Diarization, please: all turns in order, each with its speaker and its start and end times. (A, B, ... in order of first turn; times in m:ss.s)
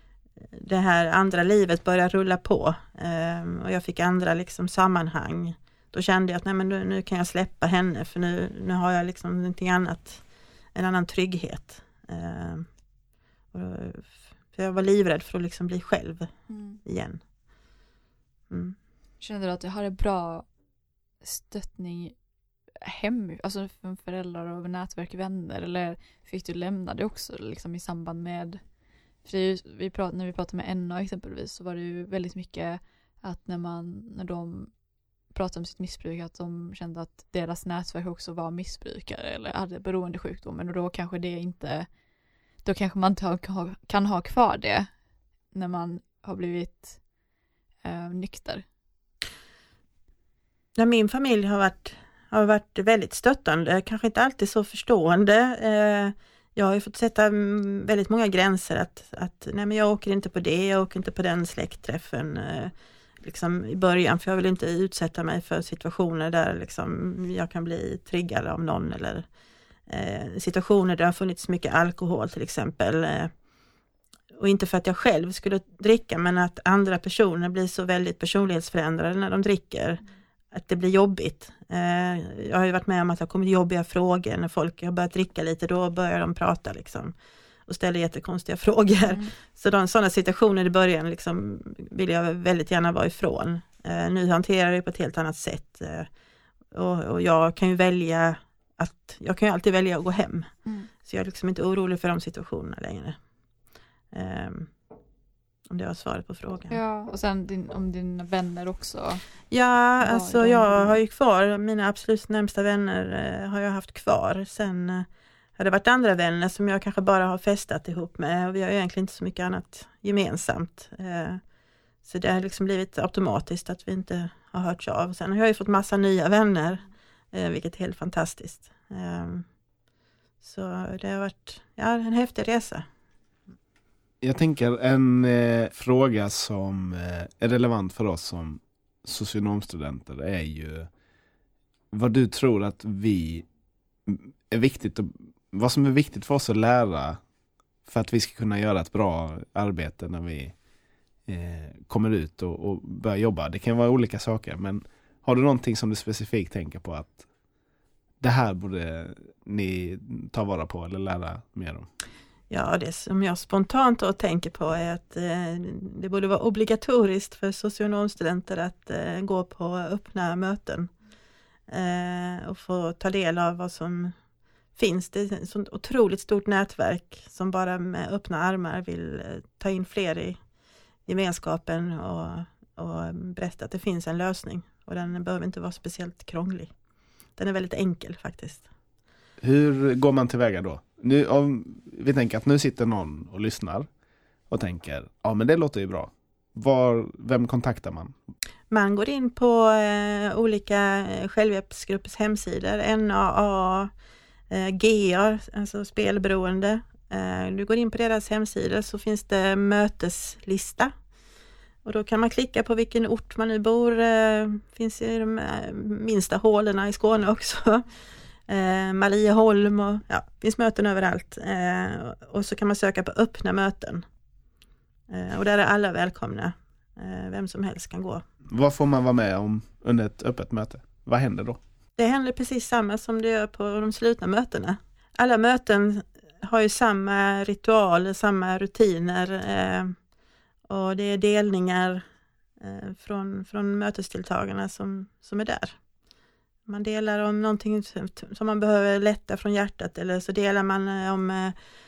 0:00.4-0:10.2 A
0:10.8-0:12.7 A
0:13.5-0:16.3 A
0:16.5-0:16.8 B
0:16.8-0:17.2 A
0:18.5-0:18.8 A
0:19.2-0:20.5 B
0:21.2-0:22.2 B
0:22.8-0:28.6 B
0:29.2-0:34.7 B
0:35.3-0:41.9 B
0:42.6-0:44.9 B
0:45.5-0:47.0 B
0:47.8-0:48.6 B
0:50.8-1:09.2 A
1:09.9-1:13.3 A
1:14.4-1:27.1 A
1:27.7-1:36.1 A
1:36.7-1:40.5 A
1:40.6-1:40.9 B
1:41.0-1:43.2 A
1:44.1-1:44.7 A
1:45.7-1:46.8 A
1:46.7-1:49.2 B
1:49.5-2:01.4 A
1:50.0-1:51.0 B
2:02.0-2:09.5 A
2:10.4-2:12.9 A
2:14.2-2:20.9 C
2:21.9-2:23.5 C
2:24.1-2:27.2 C
2:27.8-2:30.6 C
2:31.3-2:37.3 C
2:38.2-2:41.9 C
2:42.5-2:50.9 A
2:51.7-2:54.2 A
2:54.8-3:00.4 A
3:01.1-3:06.7 A
3:07.4-3:08.7 A
3:09.4-3:13.9 C
3:14.5-3:18.2 C
3:18.7-3:23.9 A
3:24.5-3:30.9 A
3:31.8-3:37.9 A
3:38.5-3:44.0 A
3:45.1-3:48.2 A
3:48.5-3:51.6 C
3:52.0-4:00.0 A
4:00.7-4:02.0 A
4:02.6-4:05.8 A
4:06.7-4:11.6 A